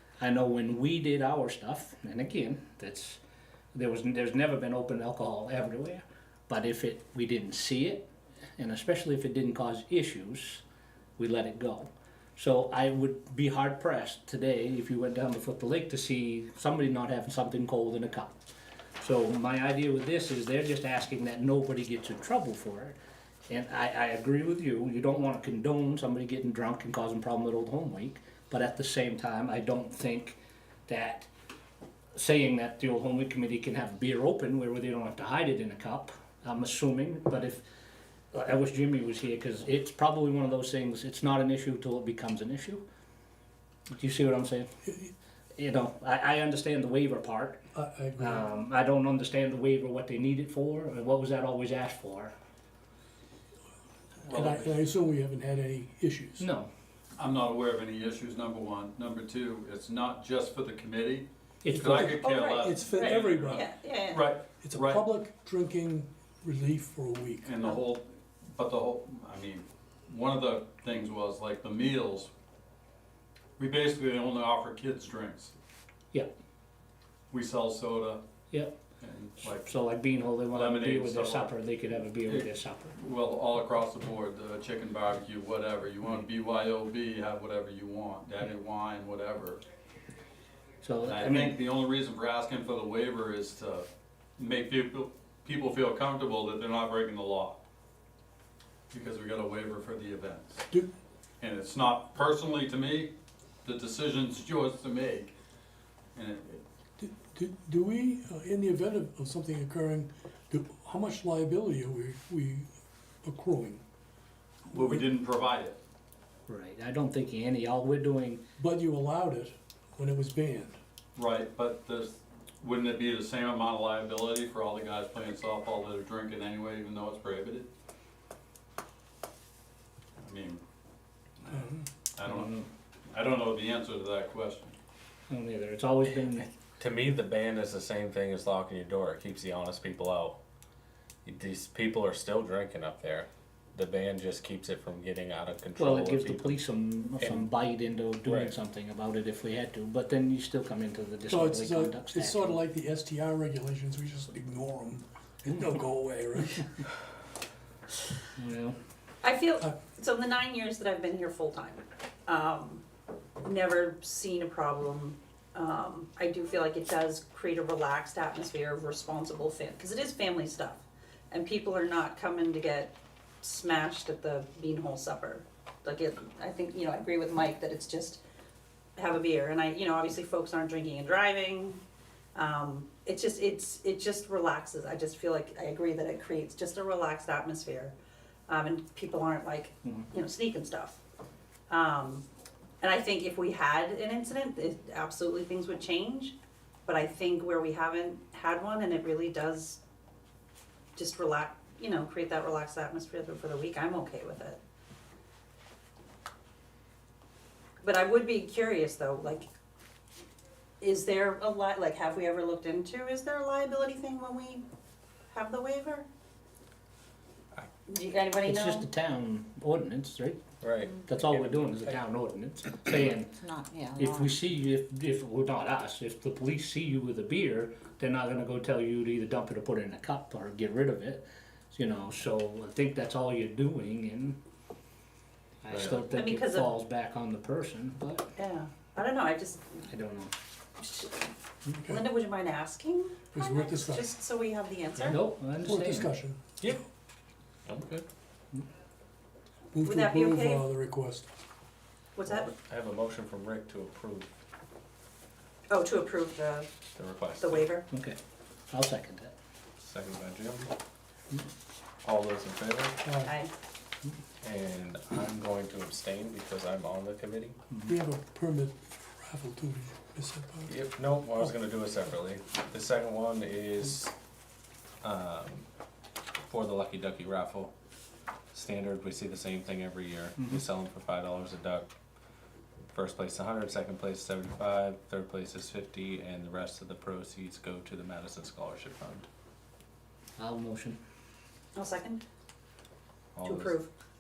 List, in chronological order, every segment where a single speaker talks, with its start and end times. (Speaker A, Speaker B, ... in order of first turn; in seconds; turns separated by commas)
Speaker A: 0.2-3.2, Speaker A: 3.7-10.6, Speaker A: 11.2-18.3, Speaker A: 19.0-23.0, Speaker A: 23.5-31.3, Speaker A: 32.1-37.6, Speaker A: 38.3-42.8, Speaker A: 43.9-44.8, Speaker A: 45.6-47.6, Speaker B: 47.7-48.4, Speaker A: 48.2-52.3, Speaker C: 54.2-54.8, Speaker B: 54.3-56.5, Speaker A: 56.4-56.7, Speaker C: 57.2-65.1, Speaker A: 61.6-62.2, Speaker B: 61.7-63.7, Speaker D: 62.2-64.3, Speaker B: 64.6-67.6, Speaker C: 67.4-72.3, Speaker C: 73.6-75.5, Speaker C: 77.3-78.2, Speaker C: 79.0-79.7, Speaker A: 79.4-83.0, Speaker C: 80.5-81.6, Speaker C: 82.1-89.6, Speaker A: 90.8-91.6, Speaker C: 91.0-93.9, Speaker C: 94.4-97.6, Speaker C: 98.9-100.7, Speaker C: 101.4-105.3, Speaker C: 106.2-106.6, Speaker B: 107.0-112.7, Speaker B: 113.2-113.8, Speaker C: 114.7-115.8, Speaker B: 114.7-115.0, Speaker A: 116.5-118.4, Speaker B: 118.6-120.8, Speaker C: 121.2-127.7, Speaker C: 130.2-130.6, Speaker C: 131.4-134.8, Speaker B: 131.5-131.8, Speaker A: 132.2-132.7, Speaker A: 135.3-136.5, Speaker E: 136.7-140.4, Speaker E: 141.2-146.6, Speaker A: 145.8-152.6, Speaker E: 147.2-147.5, Speaker E: 148.2-148.5, Speaker B: 151.3-156.7, Speaker A: 158.4-158.8, Speaker D: 159.2-162.8, Speaker D: 163.4-178.2, Speaker D: 179.0-181.8, Speaker D: 182.3-187.9, Speaker D: 188.5-191.0, Speaker D: 191.7-192.3, Speaker D: 192.8-199.8, Speaker D: 200.9-204.6, Speaker D: 207.8-209.5, Speaker D: 210.8-214.6, Speaker D: 215.3-216.1, Speaker D: 217.9-218.9, Speaker A: 218.4-220.4, Speaker E: 220.6-222.0, Speaker A: 221.0-234.4, Speaker A: 235.6-238.3, Speaker E: 235.7-236.0, Speaker D: 236.1-236.8, Speaker D: 238.4-239.8, Speaker A: 239.9-240.3, Speaker D: 240.8-241.3, Speaker B: 241.7-242.0, Speaker D: 241.9-245.2, Speaker B: 243.3-244.1, Speaker A: 245.1-246.1, Speaker B: 245.6-246.8, Speaker E: 247.7-248.1, Speaker B: 249.7-251.3, Speaker D: 249.8-250.7, Speaker D: 252.2-252.5, Speaker E: 252.3-254.3, Speaker D: 255.7-256.7, Speaker E: 257.0-257.7, Speaker D: 257.4-257.9, Speaker A: 257.9-258.2, Speaker A: 258.7-259.3, Speaker E: 259.8-260.7, Speaker E: 262.0-263.0, Speaker B: 263.0-263.4, Speaker D: 263.2-263.5, Speaker E: 264.4-267.6, Speaker B: 267.9-270.8, Speaker E: 270.7-274.1, Speaker E: 275.0-275.7, Speaker E: 276.4-277.7, Speaker E: 278.5-281.9, Speaker E: 282.9-289.3, Speaker A: 290.4-291.0, Speaker D: 291.8-292.2, Speaker E: 293.4-293.8, Speaker D: 293.4-293.9